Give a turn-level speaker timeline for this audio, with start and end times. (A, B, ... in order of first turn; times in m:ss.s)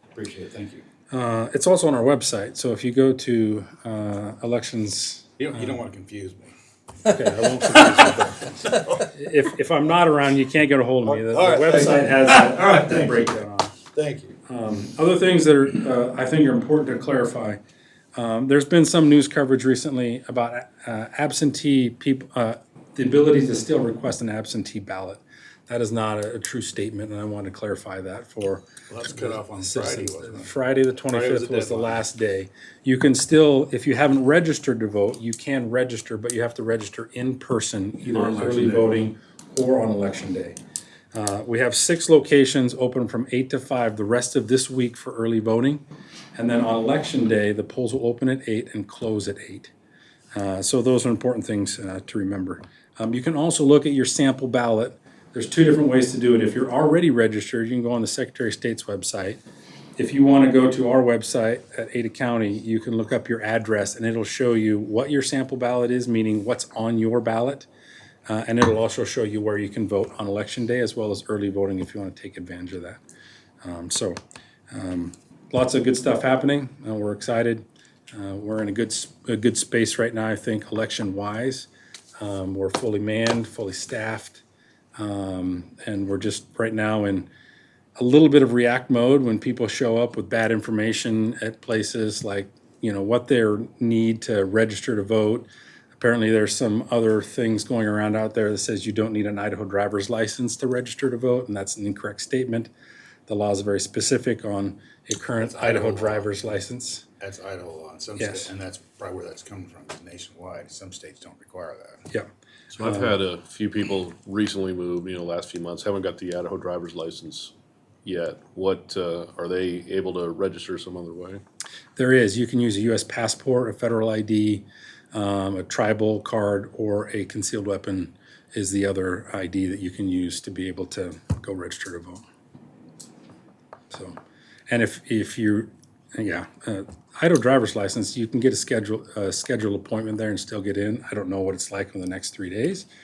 0:00.1-0:00.8 A
0:01.1-0:05.8 B
0:05.4-0:06.5 A
0:07.0-0:13.7 B
0:07.1-0:09.1 A
0:11.0-0:13.3 A
0:13.9-0:14.4 A
0:14.5-0:17.6 B
0:18.1-0:40.6 B
0:28.9-0:32.0 A
0:38.1-0:39.0 A
0:41.1-0:45.8 B
0:46.3-0:49.7 B
0:50.3-0:59.4 B
1:00.0-1:07.7 B
1:08.3-1:13.0 B
1:13.6-1:14.2 B
1:14.7-1:21.7 B
1:22.2-1:24.4 B
1:25.0-1:27.3 B
1:28.0-1:42.7 B
1:43.3-1:47.0 B
1:45.4-1:46.3 A
1:47.2-1:52.1 A
1:48.2-1:48.5 B
1:52.8-1:57.5 C
1:52.8-1:53.2 B
1:58.0-2:01.4 C
2:02.0-2:12.2 B
2:13.9-2:14.2 B
2:14.7-2:22.9 B